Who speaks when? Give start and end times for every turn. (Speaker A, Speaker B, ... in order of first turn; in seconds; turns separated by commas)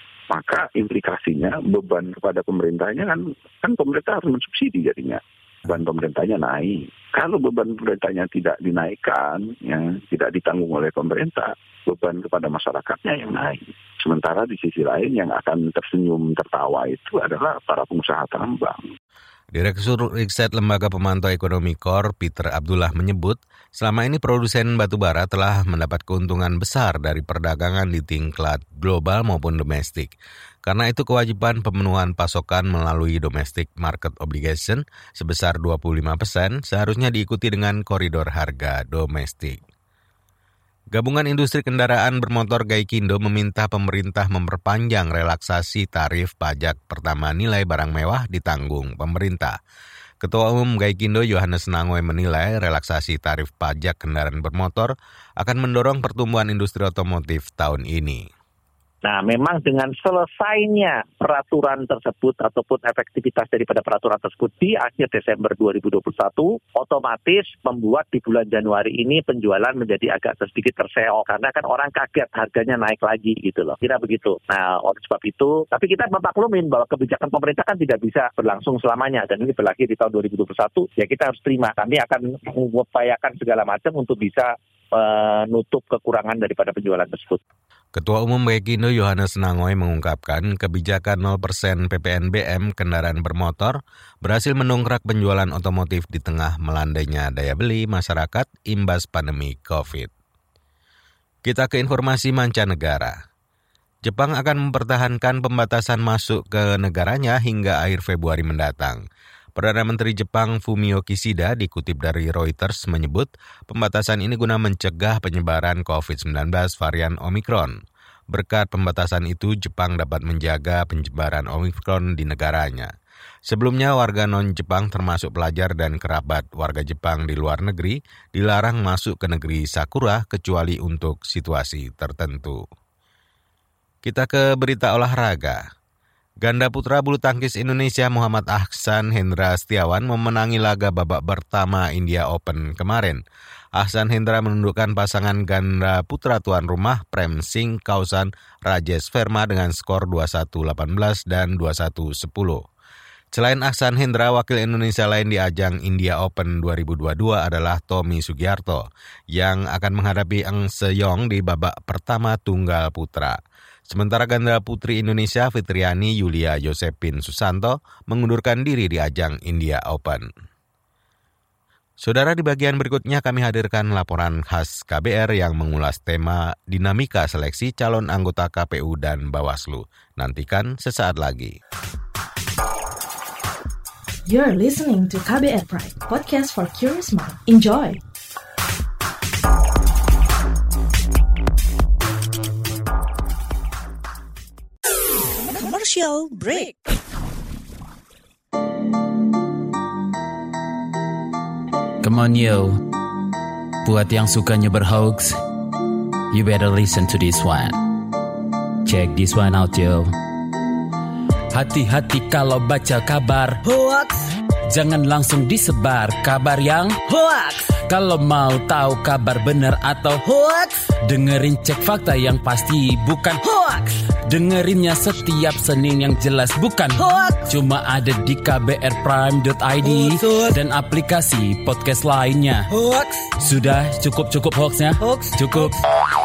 Speaker A: 0.3-18.8, Speaker B: 19.5-39.6, Speaker B: 40.9-49.6, Speaker B: 50.2-58.2, Speaker C: 59.0-87.4, Speaker B: 88.0-100.1, Speaker B: 101.4-103.1, Speaker B: 104.0-109.0, Speaker B: 109.5-117.8, Speaker B: 118.3-122.9, Speaker B: 123.5-132.6, Speaker B: 134.0-135.6, Speaker B: 136.4-143.2, Speaker B: 143.8-152.6, Speaker B: 153.3-163.4, Speaker B: 163.9-170.2, Speaker B: 172.0-181.5, Speaker D: 184.2-188.0, Speaker E: 195.5-196.8, Speaker F: 202.0-202.8, Speaker F: 203.8-205.4, Speaker F: 206.3-207.8, Speaker F: 208.8-210.1, Speaker F: 211.5-213.6, Speaker E: 213.6-214.3, Speaker F: 214.7-217.0, Speaker E: 217.1-217.7, Speaker F: 217.9-220.2, Speaker E: 220.2-220.8, Speaker F: 221.1-223.4, Speaker E: 223.4-223.9, Speaker F: 224.3-232.7, Speaker E: 226.9-227.5, Speaker E: 229.8-230.5, Speaker E: 232.7-233.3, Speaker F: 233.4-235.8, Speaker E: 235.0-235.7